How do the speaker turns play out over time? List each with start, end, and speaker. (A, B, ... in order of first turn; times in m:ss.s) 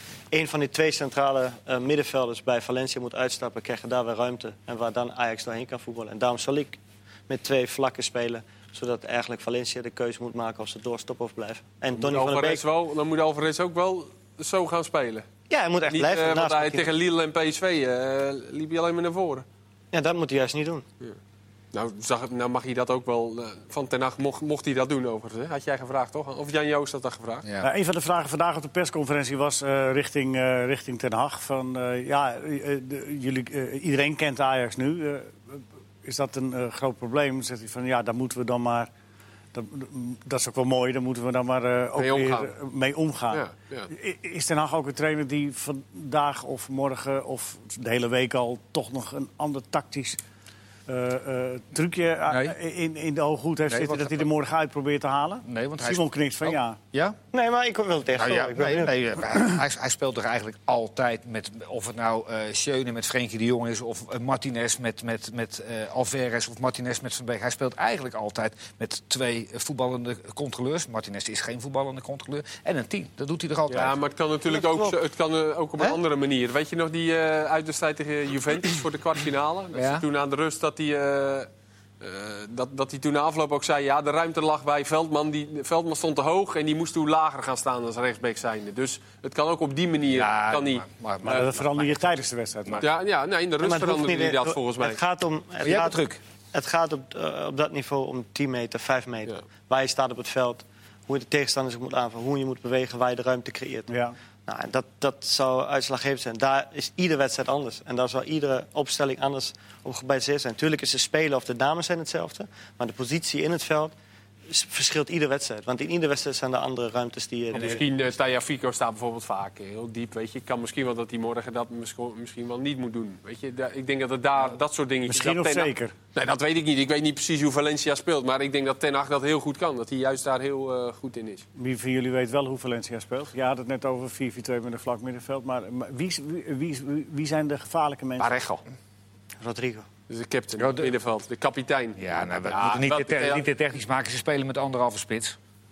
0:00.3-0:12.6 A
0:11.9-0:15.2 B
0:15.5-0:16.9 A
0:15.8-0:19.4 B
0:19.9-0:20.8 A
0:21.7-0:27.5 B
0:27.6-0:38.9 C
0:39.5-0:50.2 C
0:42.0-0:42.5 B
0:43.3-0:43.9 B
0:50.9-0:56.8 C
0:52.3-0:52.5 D
0:53.7-0:54.3 D
0:55.4-0:57.2 D
0:57.3-0:58.9 A
0:58.1-1:14.0 D
1:13.7-1:21.5 B
1:14.5-1:15.0 A
1:19.7-1:20.0 D
1:22.0-1:31.5 B
1:30.1-1:32.8 D
1:31.2-1:32.8 C
1:32.8-1:35.0 B
1:33.6-1:36.0 A
1:35.6-1:36.2 D
1:36.5-1:43.9 A
1:43.9-1:44.2 C
1:44.4-1:53.9 A
1:54.5-1:57.8 A
1:57.5-2:11.4 B
2:05.1-2:05.9 C
2:11.6-2:18.3 C
2:18.2-2:18.6 B
2:19.4-2:19.9 A
2:20.1-2:23.4 B
2:20.5-2:20.9 D
2:22.0-2:25.4 D